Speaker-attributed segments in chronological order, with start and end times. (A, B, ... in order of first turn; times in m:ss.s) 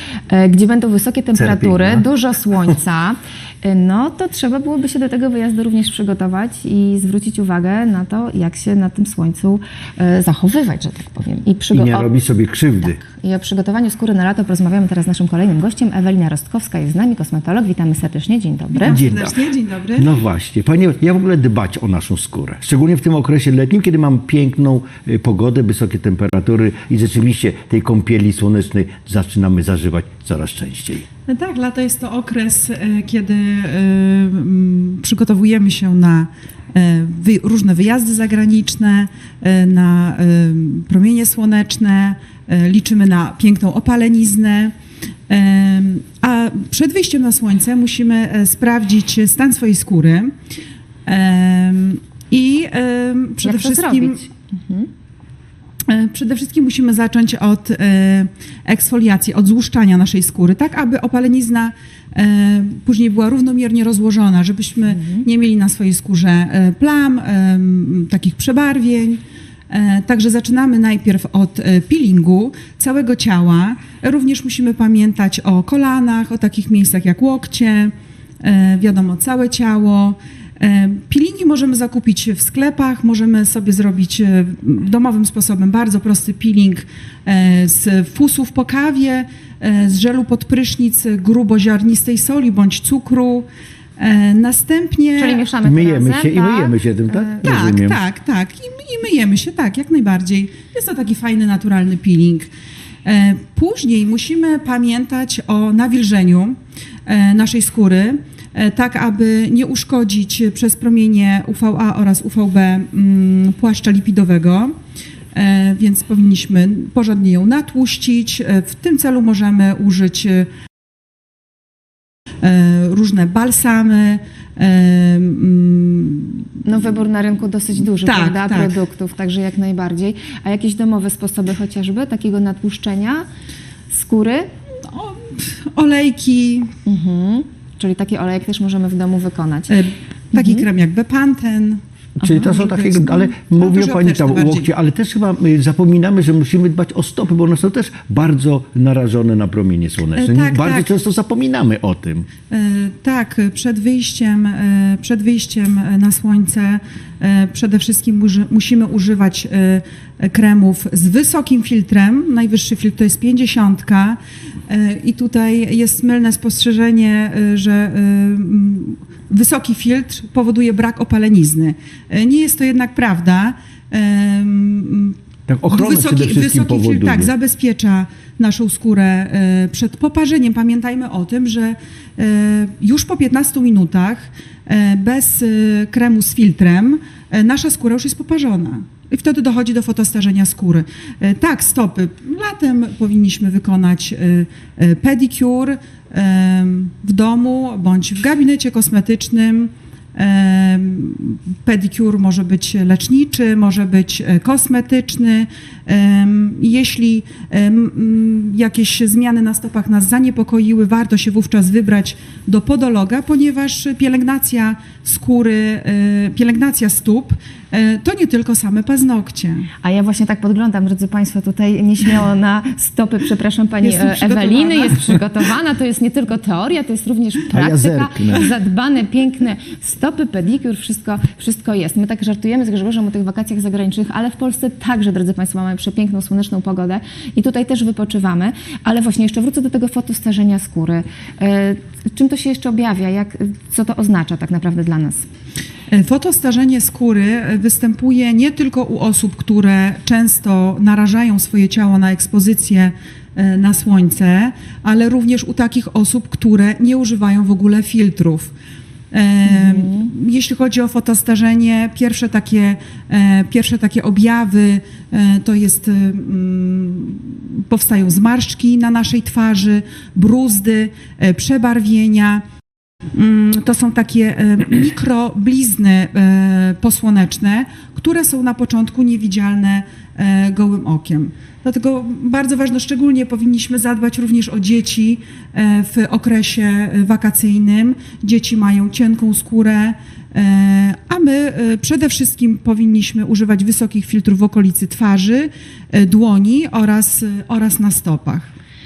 0:00.3-0:12.1 A
0:01.4-0:02.1 B
0:11.7-0:13.0 B
0:12.8-0:19.0 A
0:18.7-0:20.1 C
0:18.8-0:19.4 B
0:20.0-0:31.1 B
0:31.3-0:44.7 C
0:45.3-0:50.3 C
0:51.1-0:54.2 C
0:53.4-0:54.9 A
0:55.9-1:33.5 C
1:04.9-1:05.3 A
1:34.0-1:35.4 C
1:35.2-1:37.4 A
1:35.6-1:38.0 B
1:37.4-1:42.5 C
1:43.0-1:54.7 C
1:55.3-2:00.5 C
2:02.4-2:06.6 C
2:06.6-2:13.2 A
2:07.8-2:08.8 C
2:13.9-2:14.5 A
2:14.9-2:16.7 C
2:16.9-2:19.8 A
2:19.7-2:24.7 C
2:20.3-2:20.7 A
2:22.2-2:32.3 B
2:30.1-2:30.9 C
2:32.5-2:55.2 C
2:55.5-2:57.3 B
2:55.7-3:39.7 C
3:39.8-4:05.3 A
3:43.8-3:45.2 C
3:47.5-3:48.5 B
4:05.9-4:18.5 C
4:19.1-4:32.4 C
4:19.5-4:20.1 A
4:33.1-4:58.5 C